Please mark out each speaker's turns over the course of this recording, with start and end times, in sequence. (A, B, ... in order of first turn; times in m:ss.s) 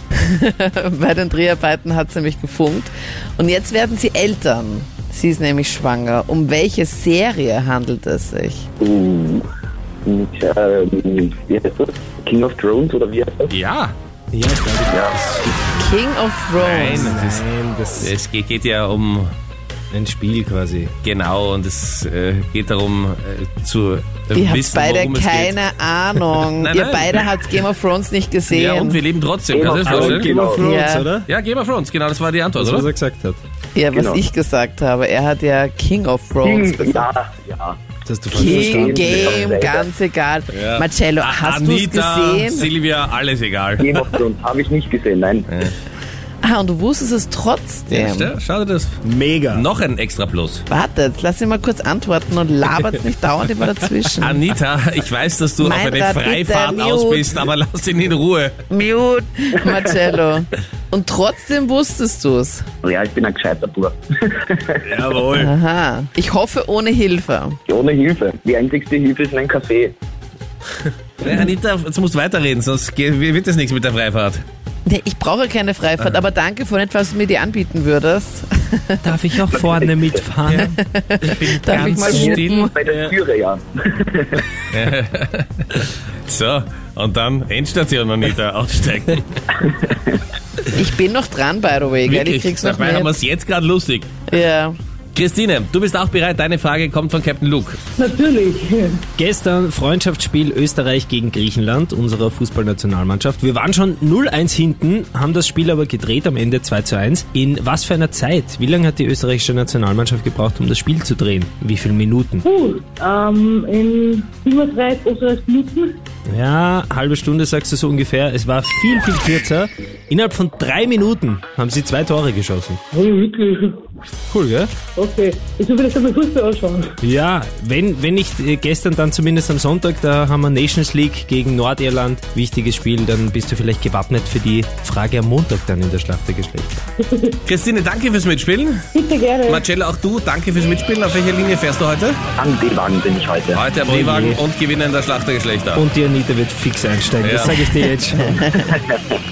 0:00.2-0:08.7 A
0:08.8-0:09.4 B
0:10.0-0:13.5 B
0:13.5-0:13.9 C
0:14.3-0:15.7 D
0:14.9-0:15.2 B
0:15.8-0:17.1 A
0:16.6-0:17.4 C
0:16.9-0:18.1 D
0:18.0-0:19.3 C
0:19.9-0:20.9 D
0:21.0-0:25.6 C
0:24.3-0:29.0 A
0:26.4-0:27.2 C
0:28.5-0:30.3 C
0:29.5-0:30.7 B
0:29.8-0:31.3 D
0:30.6-0:31.1 A
0:31.2-0:32.9 C
0:32.6-0:33.4 D
0:33.7-0:37.1 A
0:33.9-0:34.2 B
0:36.4-0:37.8 B
0:38.0-0:39.5 D
0:38.3-0:39.9 B
0:38.3-0:42.7 A
0:40.5-0:44.1 C
0:43.8-0:45.7 B
0:45.5-0:45.7 C
0:46.4-0:48.3 A
0:47.9-0:49.0 C
0:49.0-0:49.7 D
0:49.5-0:50.6 C
0:50.7-0:54.5 A
0:54.2-0:58.5 C
0:55.6-0:57.3 A
0:58.7-1:02.6 A
1:02.8-1:05.1 B
1:04.8-1:05.5 C
1:05.3-1:07.6 A
1:07.7-1:09.9 B
1:11.2-1:14.4 C
1:14.8-1:19.2 A
1:19.0-1:22.7 D
1:19.5-1:20.2 B
1:20.5-1:22.7 A
1:21.5-1:22.1 C
1:22.1-1:24.4 B
1:24.7-1:29.2 C
1:30.7-1:33.1 A
1:32.1-1:34.1 C
1:34.3-1:34.8 A
1:35.1-1:37.8 C
1:38.0-1:39.0 E
1:39.2-1:52.4 D
1:52.4-1:56.0 E
1:56.3-2:02.8 D
2:02.9-2:03.8 E
2:04.3-2:04.7 D
2:04.9-2:06.9 E
2:07.0-2:16.8 D
2:17.0-2:17.4 E
2:17.4-2:18.8 C
2:18.9-2:19.6 E
2:19.5-2:22.2 C
2:22.4-2:23.6 B
2:23.5-2:25.8 C
2:23.8-2:24.4 D
2:25.7-2:28.4 D
2:27.2-2:27.7 C
2:28.3-2:28.7 A
2:28.7-2:29.0 B